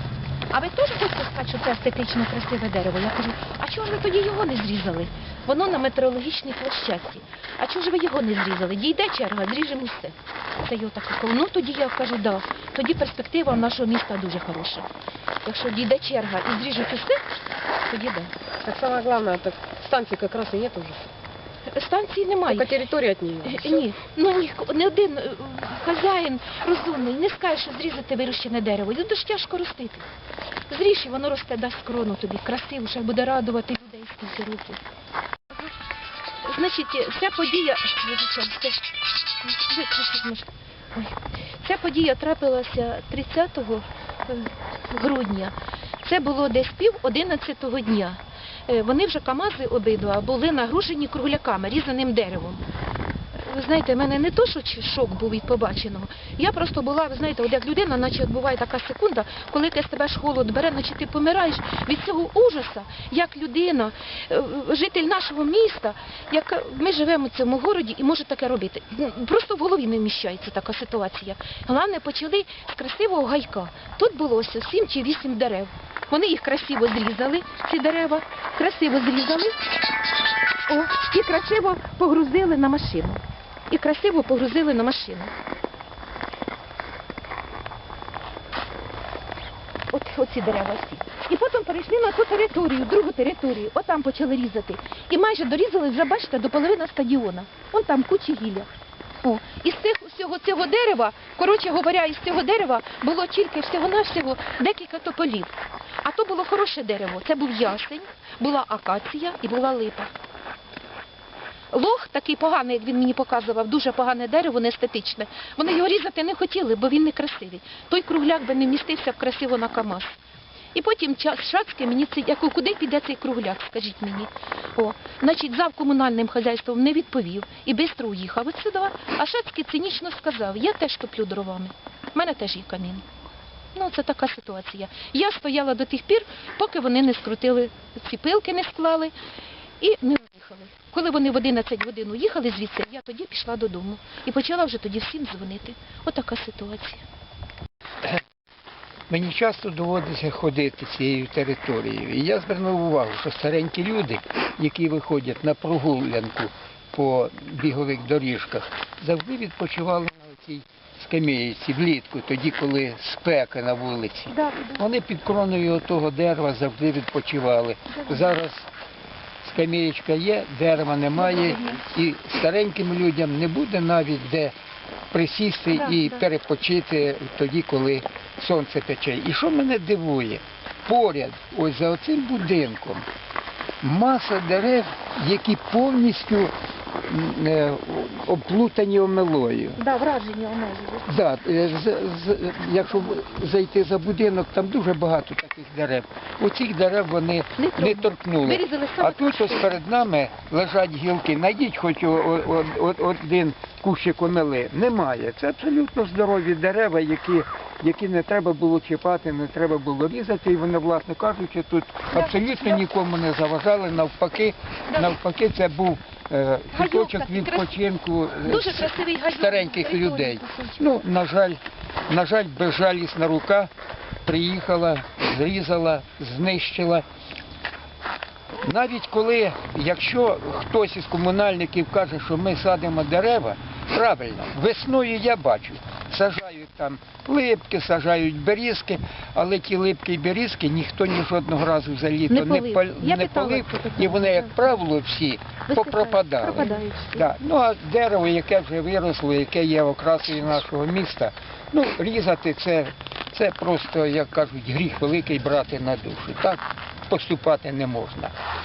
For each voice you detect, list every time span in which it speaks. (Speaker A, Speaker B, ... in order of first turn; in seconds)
Speaker A: 0.5-14.9, 15.4-17.2, 17.9-18.3, 21.7-22.7, 23.4-30.1, 30.7-34.8, 36.4-38.8, 39.4-52.6, 53.4-79.6, 80.7-85.3, 89.9-98.7, 99.2-110.1, 111.7-120.1, 120.7-133.0, 133.7-139.1, 139.8-147.0, 164.3-164.8, 167.9-168.2, 171.2-171.7, 175.7-176.2, 189.8-191.1, 197.6-199.8, 216.7-217.8, 218.4-220.8, 242.3-244.6, 245.7-247.3
Speaker B: 18.6-21.1, 22.5-23.8
Speaker C: 149.1-168.7, 169.4-174.5, 175.1-183.0, 183.8-186.5, 187.1-189.8, 191.1-223.7, 224.2-227.1, 228.6-258.3